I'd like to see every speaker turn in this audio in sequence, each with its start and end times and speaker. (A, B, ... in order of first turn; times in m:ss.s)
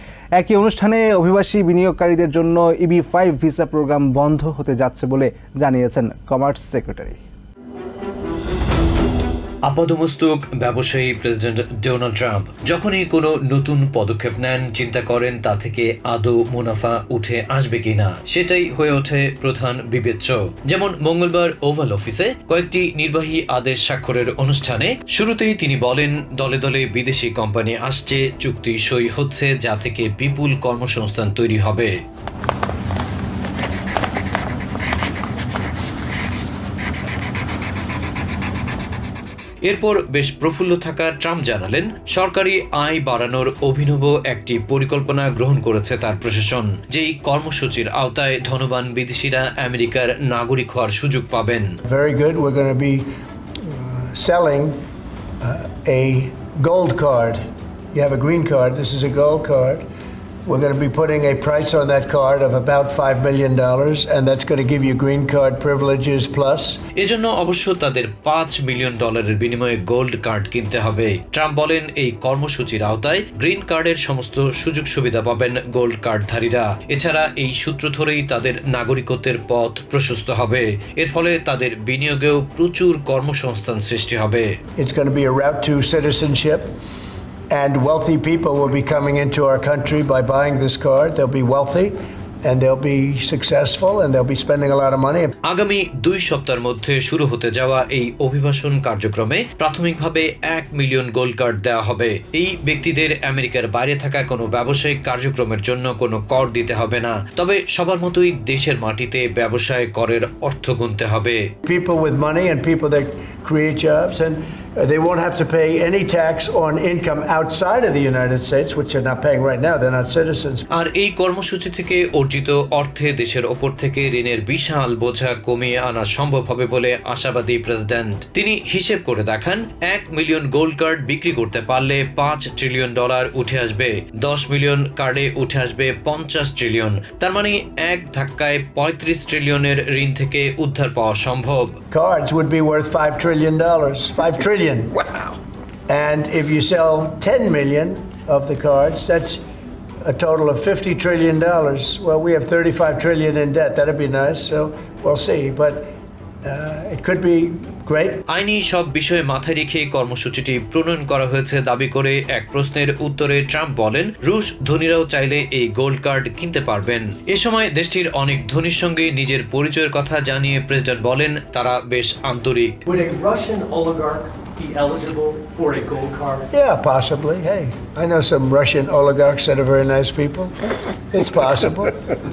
0:00.4-0:07.2 A
0:09.6-0:31.9 B
0:39.6-0:51.8 B
0:51.8-0:53.1 C
0:53.6-0:54.7 C
0:55.4-0:57.4 C
0:57.9-0:59.8 C
1:00.4-1:06.8 C
1:07.0-1:24.6 B
1:24.8-1:26.7 C
1:27.5-1:35.3 C
1:35.4-1:51.5 B
1:51.6-2:00.6 C
2:00.7-2:21.8 B
2:21.9-2:25.0 C
2:25.9-2:29.4 C
2:30.0-2:35.9 C
2:36.4-2:38.2 C
2:38.3-2:52.8 B
2:52.8-2:56.4 D
2:56.5-3:02.0 C